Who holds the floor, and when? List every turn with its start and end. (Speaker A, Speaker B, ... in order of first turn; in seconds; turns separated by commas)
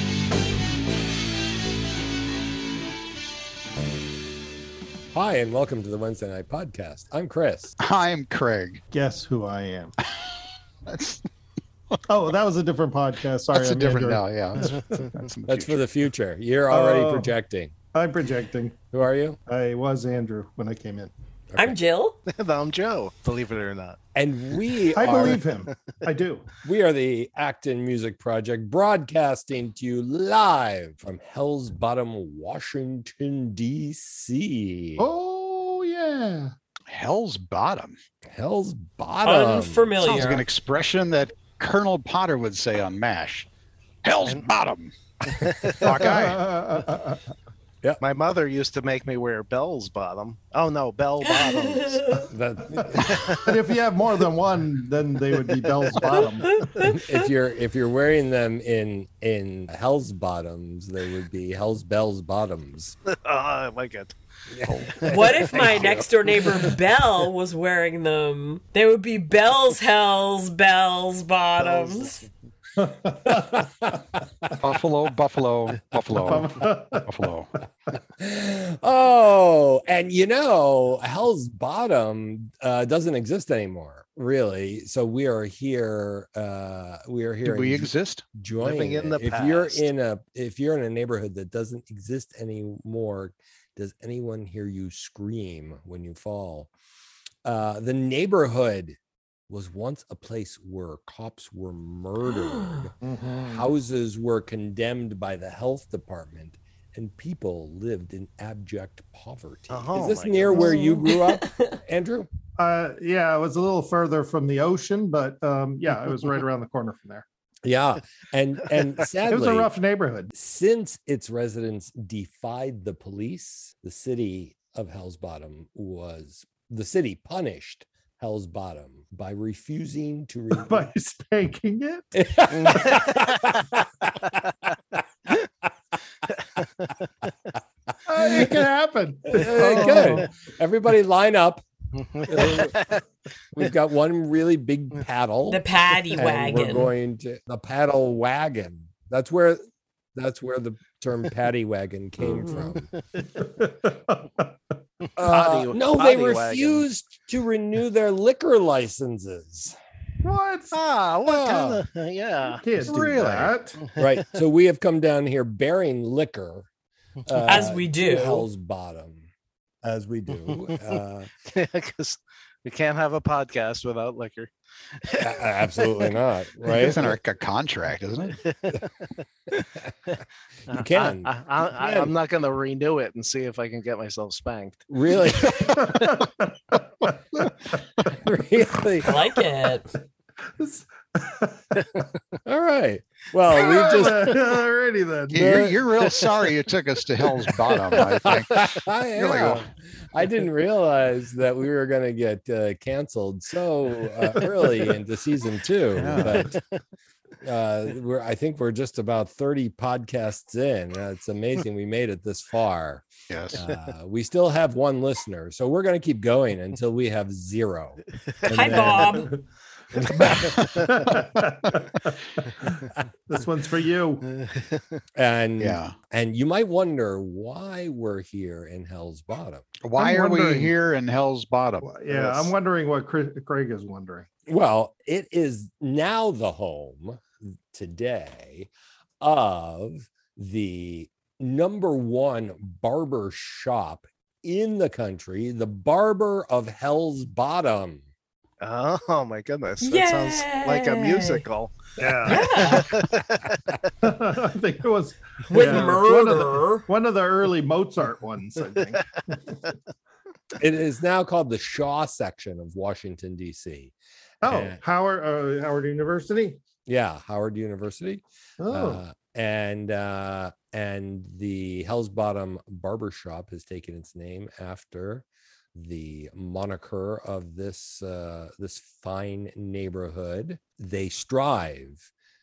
Speaker A: 5.1-7.7, Speaker B: 7.8-8.8, Speaker C: 8.9-9.9, Speaker B: 10.9-11.2, Speaker C: 12.1-15.1, Speaker B: 13.5-15.8, Speaker A: 15.5-17.7, Speaker C: 16.7-17.3, Speaker C: 17.9-18.8, Speaker A: 18.9-19.4, Speaker C: 19.5-21.1, Speaker A: 21.5-21.8, Speaker D: 21.6-22.2, Speaker E: 22.3-24.0, Speaker A: 24.1-25.4, Speaker C: 24.9-26.5, Speaker A: 26.6-35.1, Speaker C: 35.0-36.5, Speaker B: 36.9-38.0, Speaker A: 38.3-40.0, Speaker D: 39.2-40.5, Speaker B: 40.0-43.5, Speaker B: 44.0-46.6, Speaker E: 45.3-46.3, Speaker C: 46.0-47.2, Speaker E: 48.0-52.2, Speaker D: 51.3-52.2, Speaker A: 52.3-53.4, Speaker C: 52.8-56.7, Speaker E: 52.9-53.5, Speaker E: 55.9-56.2, Speaker D: 56.5-57.2, Speaker A: 56.8-63.0, Speaker E: 63.1-64.2, Speaker A: 64.5-66.0, Speaker B: 64.6-64.9, Speaker D: 65.0-72.2, Speaker E: 65.0-65.4, Speaker B: 65.6-66.1, Speaker E: 71.8-72.1, Speaker C: 72.8-73.7, Speaker A: 73.2-74.6, Speaker B: 74.6-77.5, Speaker C: 76.1-77.1, Speaker A: 78.2-96.7, Speaker B: 87.4-88.2, Speaker E: 88.6-89.9, Speaker A: 97.4-99.0, Speaker A: 99.5-102.9, Speaker D: 102.4-102.8, Speaker C: 103.0-103.7, Speaker A: 103.5-112.3, Speaker E: 109.7-110.8, Speaker C: 110.5-110.9, Speaker D: 110.5-111.7, Speaker C: 112.6-117.2, Speaker A: 117.6-119.7, Speaker C: 119.3-120.3, Speaker A: 120.3-130.9, Speaker C: 130.6-132.1, Speaker A: 132.1-134.3, Speaker E: 132.5-133.6, Speaker E: 136.3-137.1, Speaker C: 138.1-140.3, Speaker A: 138.2-138.5, Speaker A: 139.3-141.6, Speaker E: 139.8-140.1, Speaker E: 142.0-143.0, Speaker A: 142.2-142.8, Speaker A: 143.5-145.6, Speaker D: 145.5-146.9, Speaker A: 146.2-149.6, Speaker A: 150.2-152.9, Speaker C: 153.3-154.5, Speaker E: 155.2-156.9, Speaker A: 155.2-159.8, Speaker C: 160.2-160.8, Speaker E: 160.7-162.6, Speaker A: 161.2-161.8, Speaker C: 162.6-163.8, Speaker B: 162.8-163.6, Speaker A: 164.0-166.7, Speaker A: 167.2-169.3, Speaker D: 167.4-168.5, Speaker A: 169.8-171.3, Speaker E: 170.5-170.9, Speaker E: 171.4-176.1, Speaker A: 175.2-177.1, Speaker B: 176.7-178.4, Speaker E: 178.4-180.2, Speaker E: 180.7-184.8, Speaker A: 180.7-182.1, Speaker A: 184.9-185.9, Speaker E: 185.5-186.2, Speaker C: 185.6-187.8, Speaker A: 188.1-189.2, Speaker D: 189.0-189.9, Speaker C: 190.6-192.0, Speaker A: 192.5-194.4, Speaker C: 193.5-195.5, Speaker B: 195.3-199.7, Speaker A: 195.3-195.8, Speaker A: 198.0-206.6, Speaker B: 205.9-206.5, Speaker A: 207.4-219.3, Speaker B: 213.3-213.6, Speaker D: 218.4-219.3, Speaker A: 220.0-220.6, Speaker E: 220.2-220.9, Speaker C: 220.2-222.1, Speaker C: 222.6-224.3, Speaker E: 224.3-225.0, Speaker A: 225.2-229.7, Speaker B: 225.6-225.9, Speaker B: 229.8-231.9, Speaker C: 229.9-230.7, Speaker C: 231.8-234.3, Speaker E: 232.1-232.5, Speaker A: 234.5-238.7, Speaker A: 239.2-248.0, Speaker E: 248.6-253.8, Speaker D: 249.8-251.4, Speaker C: 252.0-252.4, Speaker D: 252.2-252.9, Speaker C: 254.0-259.6, Speaker D: 255.5-256.9, Speaker A: 255.7-256.4, Speaker A: 260.6-264.8, Speaker C: 264.4-266.6, Speaker A: 266.9-282.1, Speaker C: 268.6-269.0